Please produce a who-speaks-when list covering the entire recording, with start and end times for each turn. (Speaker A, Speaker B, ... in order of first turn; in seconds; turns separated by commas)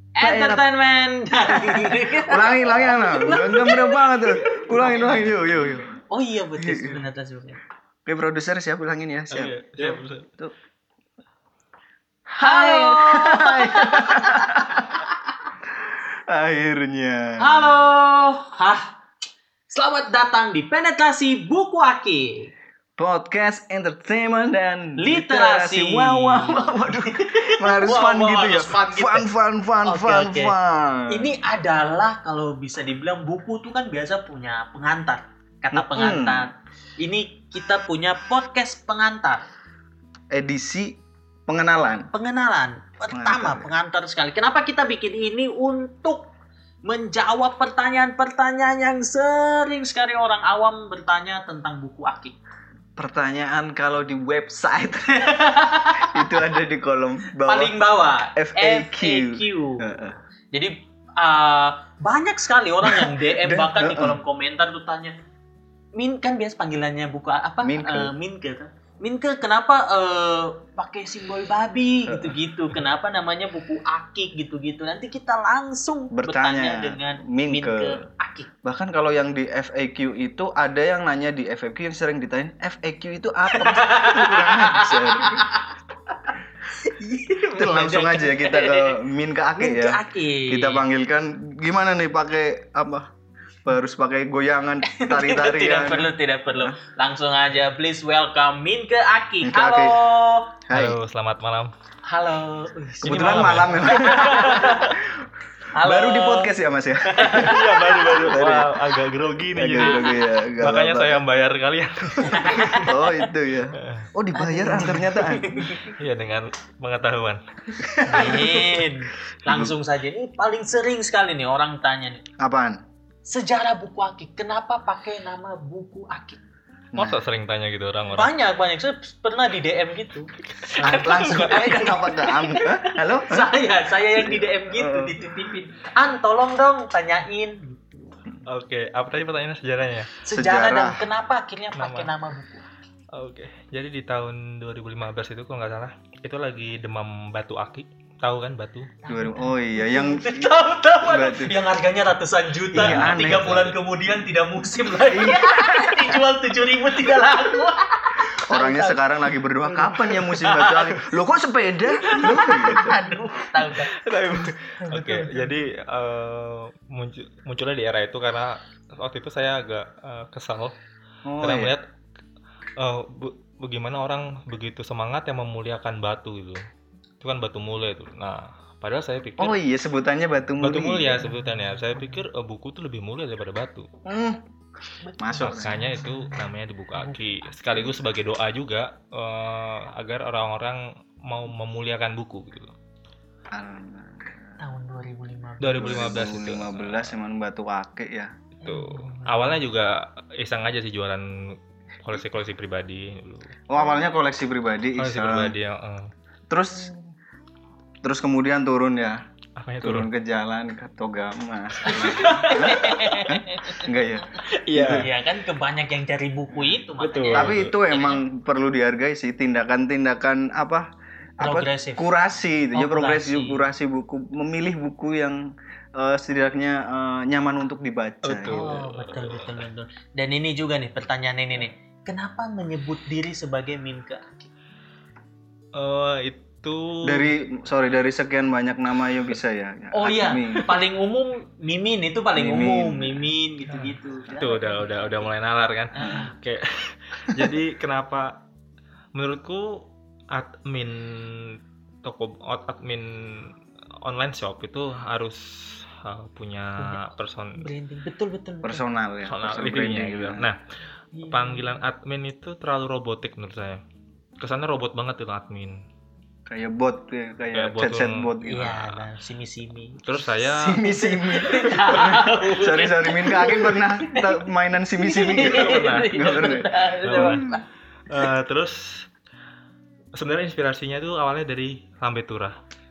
Speaker A: 0.2-5.4, Speaker B: 0.2-0.6, Speaker B: 1.5-6.0, Speaker A: 6.1-7.6, Speaker B: 6.6-7.0, Speaker B: 8.1-10.5, Speaker C: 9.3-10.3, Speaker B: 12.3-15.0, Speaker A: 12.4-14.9, Speaker B: 15.8-17.7, Speaker A: 17.4-19.0, Speaker A: 19.7-22.5, Speaker B: 23.0-31.4, Speaker A: 25.0-29.3, Speaker A: 29.8-30.5, Speaker A: 31.1-39.4, Speaker B: 35.7-36.5, Speaker B: 40.3-42.1, Speaker A: 42.1-46.3, Speaker B: 43.1-43.7, Speaker A: 46.8-52.4, Speaker B: 53.0-57.8, Speaker A: 55.2-56.5, Speaker A: 57.4-60.0, Speaker B: 58.3-60.2, Speaker A: 60.5-65.1, Speaker B: 62.8-64.2, Speaker A: 66.0-78.5, Speaker B: 67.6-68.1, Speaker B: 72.1-72.3, Speaker B: 76.1-78.0, Speaker B: 78.6-85.5, Speaker A: 83.5-85.7, Speaker A: 86.3-89.0, Speaker B: 87.5-93.1, Speaker A: 89.6-90.8, Speaker B: 93.6-96.7, Speaker A: 94.8-100.6, Speaker B: 99.4-100.0, Speaker B: 100.7-101.0, Speaker C: 100.7-101.7, Speaker A: 102.0-105.0, Speaker B: 103.0-105.2, Speaker C: 103.0-104.9, Speaker A: 105.7-108.3, Speaker B: 105.8-108.7, Speaker C: 107.3-112.9, Speaker B: 109.5-111.2, Speaker A: 109.8-110.2, Speaker A: 112.2-113.3, Speaker B: 112.8-115.9, Speaker C: 113.7-114.1, Speaker A: 114.3-115.9, Speaker C: 116.0-117.4, Speaker B: 117.8-118.9, Speaker A: 118.0-122.2, Speaker B: 119.5-119.7, Speaker B: 122.4-122.8, Speaker A: 123.2-126.4, Speaker B: 126.9-127.2, Speaker C: 126.9-128.3, Speaker A: 128.1-138.2, Speaker C: 130.6-131.8, Speaker B: 130.8-133.5, Speaker B: 134.1-135.5, Speaker C: 138.5-140.1, Speaker A: 140.2-142.7, Speaker B: 140.3-141.1, Speaker C: 141.7-142.1, Speaker C: 143.1-148.9, Speaker A: 149.0-159.0, Speaker B: 149.1-150.5, Speaker B: 151.0-151.6, Speaker B: 152.7-153.7, Speaker C: 152.8-153.7, Speaker B: 155.1-156.2, Speaker B: 158.5-163.0, Speaker A: 159.7-160.9, Speaker A: 162.0-164.0, Speaker C: 162.1-162.9, Speaker C: 163.6-170.7, Speaker A: 164.8-165.6, Speaker B: 171.2-171.7, Speaker C: 171.4-171.8, Speaker C: 172.8-176.6, Speaker C: 177.2-179.6, Speaker B: 179.4-181.2, Speaker C: 180.6-183.9, Speaker A: 181.2-182.2, Speaker B: 184.0-184.4, Speaker A: 185.0-187.5, Speaker B: 185.2-185.8, Speaker C: 185.4-192.7, Speaker B: 193.5-194.6, Speaker A: 194.6-196.2, Speaker C: 195.6-197.1, Speaker B: 195.8-198.3, Speaker A: 198.6-199.6, Speaker C: 198.6-203.6, Speaker B: 203.7-205.5, Speaker C: 205.0-206.1, Speaker B: 206.5-206.9, Speaker A: 206.8-207.1, Speaker B: 208.0-209.2, Speaker C: 209.6-210.1, Speaker B: 209.8-215.1, Speaker A: 211.8-213.9, Speaker C: 212.2-213.0, Speaker C: 214.6-215.1, Speaker A: 214.7-218.2, Speaker C: 217.0-217.8, Speaker B: 217.3-220.8, Speaker B: 221.4-228.7, Speaker A: 221.4-222.1, Speaker A: 222.7-223.6, Speaker C: 228.2-229.6, Speaker A: 228.4-234.5, Speaker C: 235.7-237.3, Speaker B: 237.0-240.8, Speaker A: 239.9-245.3, Speaker B: 242.3-243.3, Speaker C: 243.7-248.4, Speaker A: 245.9-246.3, Speaker C: 249.1-257.6, Speaker A: 256.8-258.8, Speaker B: 258.6-260.5, Speaker C: 259.2-260.6, Speaker A: 261.1-261.8, Speaker C: 261.3-263.8, Speaker C: 264.4-265.8, Speaker B: 266.5-268.8, Speaker C: 267.5-268.9, Speaker A: 268.4-270.0, Speaker C: 270.0-270.8, Speaker B: 270.4-277.5, Speaker A: 270.8-278.3, Speaker C: 275.4-276.1, Speaker C: 277.0-277.5, Speaker C: 278.1-279.1, Speaker C: 280.1-282.6